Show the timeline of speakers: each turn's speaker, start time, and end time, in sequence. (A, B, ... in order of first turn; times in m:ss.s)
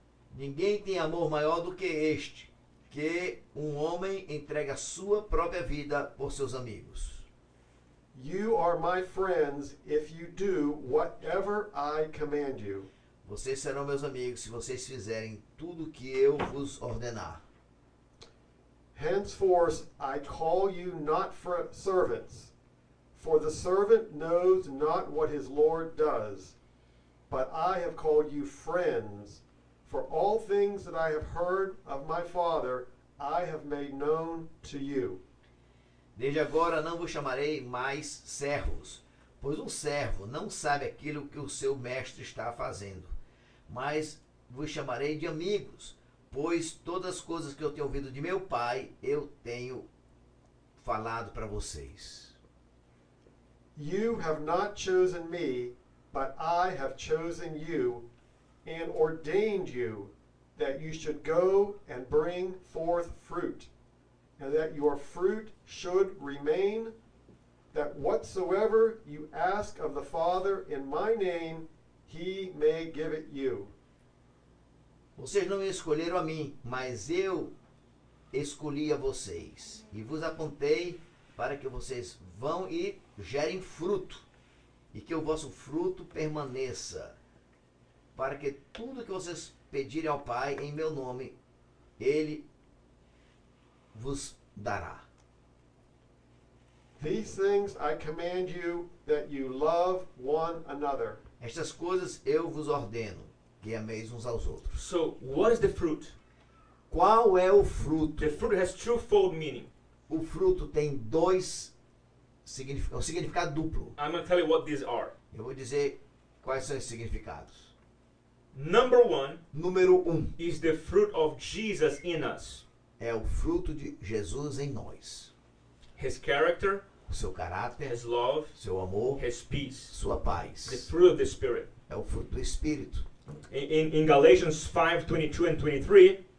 0:00.3-0:07.2 A
0:08.1-0:12.9 B
0:13.2-0:17.4 A
0:18.9-0:22.5 B
0:23.1-0:26.5 B
0:27.3-0:35.2 B
0:36.1-0:43.1 A
0:43.7-0:49.8 A
0:50.8-0:52.3 A
0:53.8-0:58.0 B
0:58.6-1:03.7 B
1:04.4-1:06.9 B
1:07.7-1:13.7 B
1:15.2-1:17.5 A
1:18.3-1:24.2 A
1:24.9-1:27.1 A
1:28.1-1:31.3 A
1:32.0-1:32.4 A
1:33.9-1:35.0 A
1:37.0-1:41.2 B
1:41.4-1:44.8 A
1:44.7-1:46.1 C
1:46.9-1:48.4 A
1:48.2-1:49.7 C
1:50.1-1:51.7 A
1:52.4-1:54.0 A
1:54.0-1:55.1 C
1:55.3-1:57.7 A
1:58.5-1:59.4 C
1:59.5-2:00.3 A
2:00.4-2:02.6 C
2:03.0-2:05.3 A
2:06.0-2:06.8 C
2:07.1-2:08.0 A
2:07.8-2:08.5 C
2:08.5-2:09.2 A
2:09.2-2:09.9 C
2:09.9-2:10.9 A
2:10.6-2:11.7 C
2:11.9-2:13.0 A
2:13.5-2:16.2 C